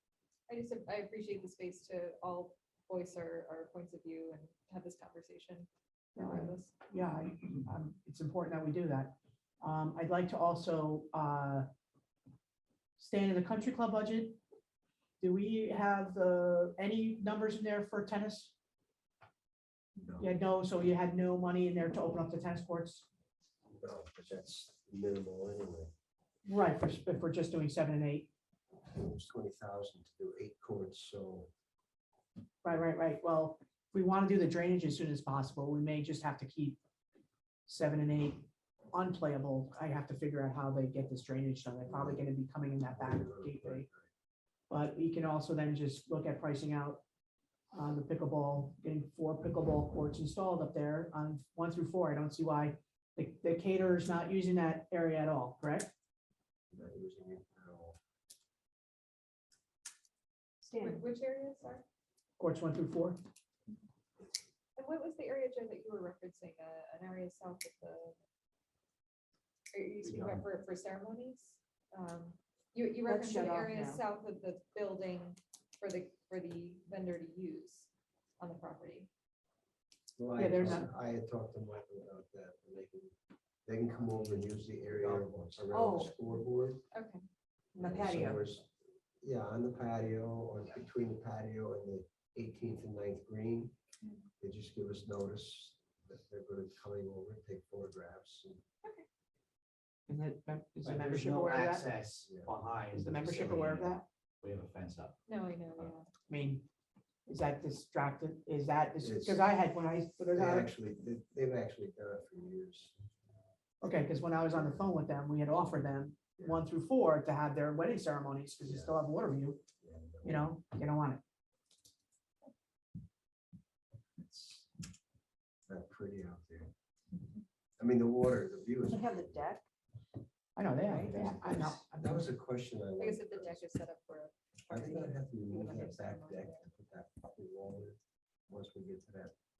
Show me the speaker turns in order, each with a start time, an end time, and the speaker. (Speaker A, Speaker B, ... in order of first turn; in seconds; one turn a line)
Speaker A: 0.5-6.7
Speaker B: 6.2-11.7
Speaker B: 13.0-14.4
Speaker B: 15.2-18.5
Speaker C: 20.0-20.3
Speaker B: 20.2-23.1
Speaker C: 23.7-25.9
Speaker B: 26.4-28.3
Speaker C: 28.9-31.5
Speaker B: 32.6-36.8
Speaker B: 37.6-43.9
Speaker C: 41.9-42.2
Speaker C: 42.9-44.1
Speaker B: 44.7-47.0
Speaker B: 47.7-55.9
Speaker C: 56.7-58.0
Speaker D: 60.6-61.0
Speaker A: 60.8-61.8
Speaker B: 62.4-63.2
Speaker A: 64.8-68.1
Speaker A: 69.7-79.1
Speaker E: 70.0-70.5
Speaker D: 73.0-74.0
Speaker C: 80.2-86.8
Speaker B: 80.4-80.9
Speaker D: 85.7-86.1
Speaker A: 86.9-87.2
Speaker D: 87.7-88.5
Speaker C: 87.8-88.7
Speaker C: 89.2-93.7
Speaker C: 94.4-98.6
Speaker B: 100.1-101.8
Speaker E: 100.8-105.2
Speaker C: 102.2-102.5
Speaker B: 102.9-104.0
Speaker A: 105.3-106.1
Speaker B: 106.3-106.7
Speaker B: 107.3-110.7
Speaker C: 109.0-109.4
Speaker C: 110.3-113.0
Speaker B: 113.8-119.6
Speaker C: 116.4-116.6
Speaker C: 118.7-118.9
Speaker C: 119.8-120.4
Speaker B: 120.2-121.2
Speaker C: 124.2-124.7
Speaker C: 125.7-126.7
Speaker C: 127.8-129.5
Speaker D: 128.8-129.6
Speaker B: 130.6-132.2
Speaker D: 130.8-131.3
Speaker C: 131.1-133.7
Speaker A: 133.0-136.6
Speaker C: 134.7-139.3